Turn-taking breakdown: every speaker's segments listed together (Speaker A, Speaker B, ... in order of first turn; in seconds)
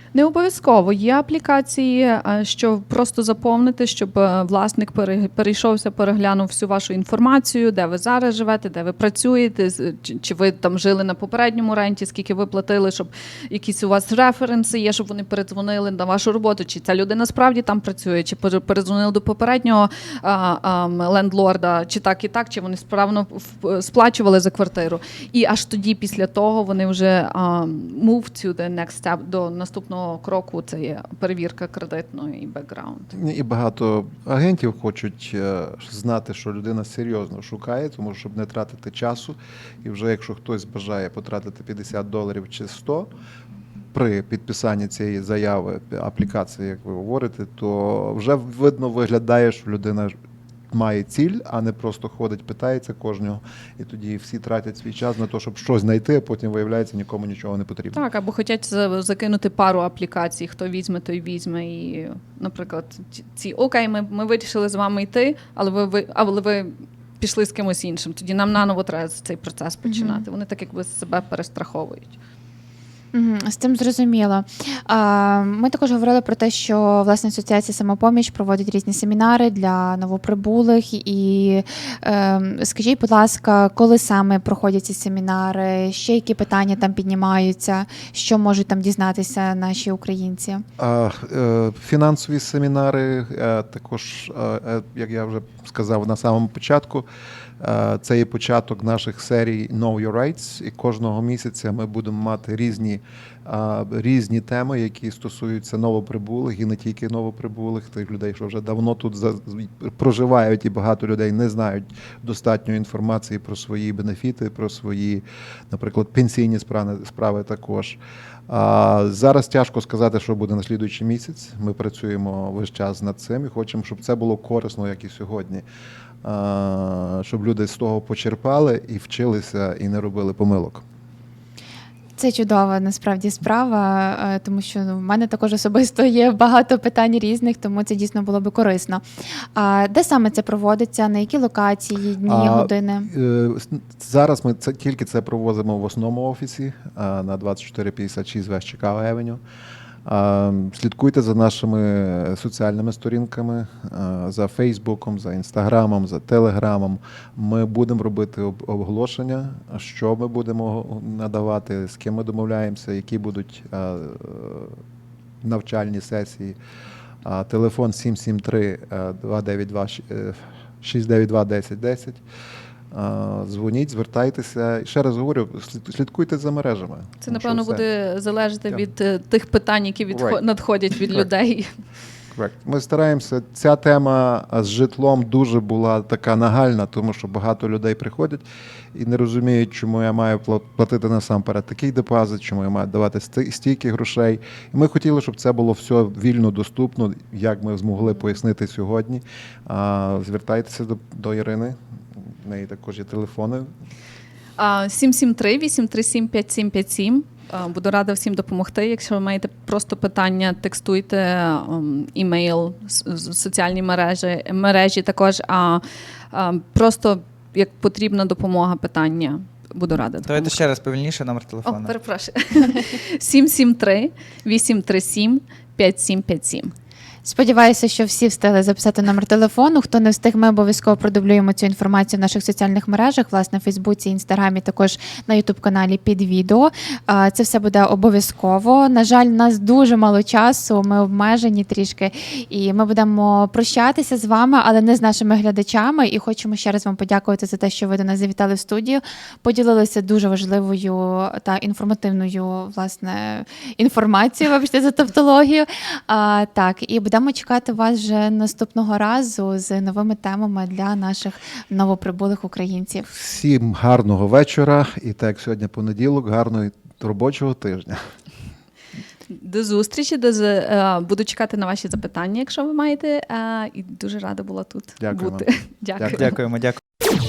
Speaker A: 0.1-33.1, 57.9-72.2, 177.2-181.7, 204.6-220.6, 221.7-226.7, 269.3-276.3
Speaker B: 33.1-43.1, 43.9-50.1, 50.7-58.0, 90.8-97.1, 97.6-125.7, 126.2-130.8, 142.2-149.4, 150.1-164.8, 165.4-166.6, 167.2-172.2, 172.9-177.8, 180.1-180.4, 182.3-203.7, 263.1-268.1, 275.0-275.5, 276.0-276.2
Speaker C: 69.8-70.2, 73.1-90.7, 132.2-139.0, 139.6-143.1, 227.2-263.1
Speaker D: 220.3-221.9, 276.0-276.8